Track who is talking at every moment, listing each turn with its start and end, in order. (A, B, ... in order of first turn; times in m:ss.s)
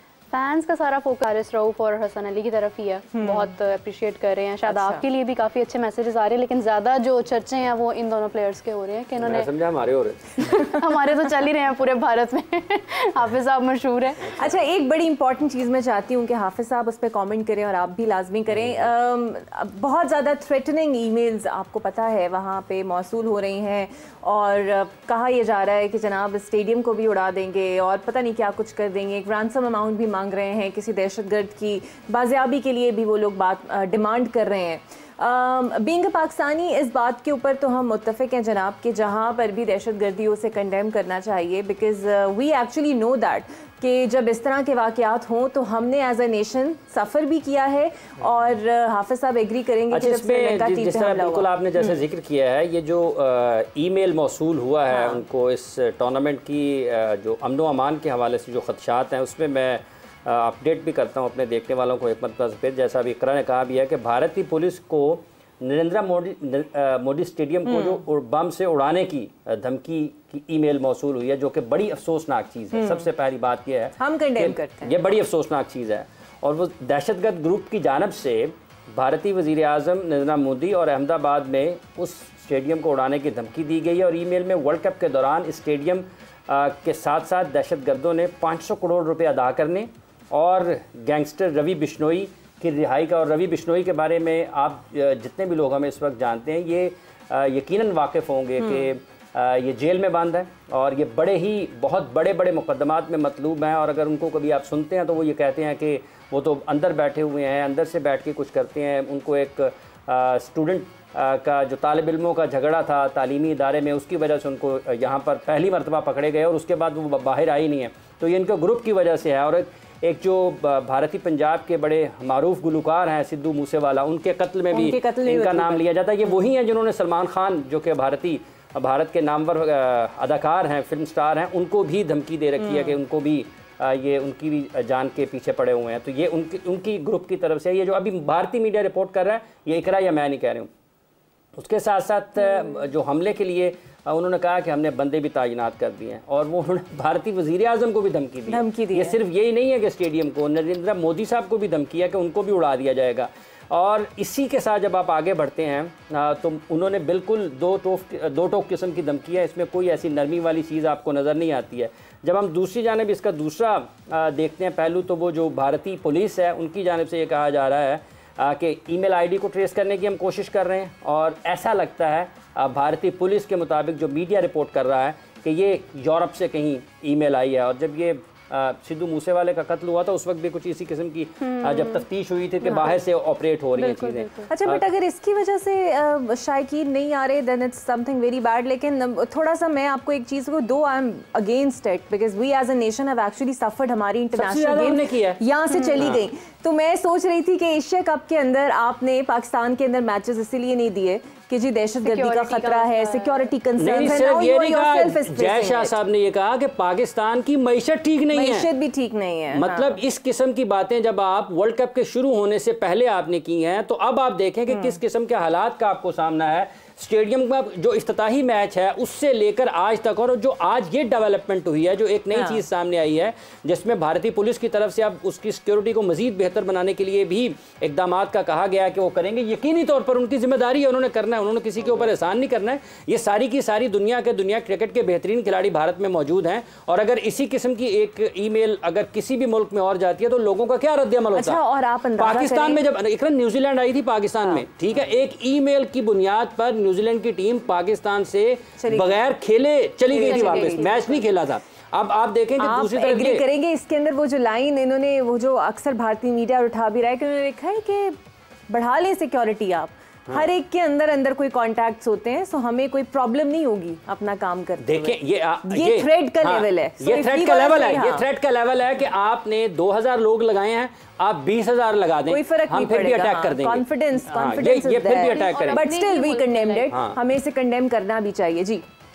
0:00.3-0:09.5 A
0:03.2-0:03.5 B
0:04.7-0:05.0 B
0:09.2-0:10.5 C
0:10.4-0:14.4 A
0:14.3-0:52.0 B
0:49.9-2:20.7 C
0:54.9-0:55.2 B
1:07.7-1:08.0 B
1:12.7-1:13.1 B
1:14.0-1:15.0 B
1:38.6-1:38.9 B
2:04.7-2:05.8 B
2:12.6-2:13.0 B
2:21.6-3:04.8 C
2:28.5-2:29.2 B
3:01.4-3:02.0 A
3:02.7-3:03.0 B
3:04.5-3:26.0 B
3:14.3-3:15.4 C
3:16.0-3:16.2 C
3:22.0-3:23.5 A
3:23.8-3:28.7 C
3:28.3-3:29.9 B
3:29.5-4:01.6 C
3:34.7-3:35.0 B
3:42.3-3:42.6 B
4:01.3-4:02.8 B
4:02.2-4:13.4 C
4:08.8-4:09.2 B
4:10.1-4:11.0 B
4:10.2-4:11.1 A
4:12.6-4:18.2 B
4:18.7-4:28.3 B
4:24.8-4:35.8 C
4:32.3-4:38.8 B
4:35.3-4:37.0 A
4:36.9-4:37.2 C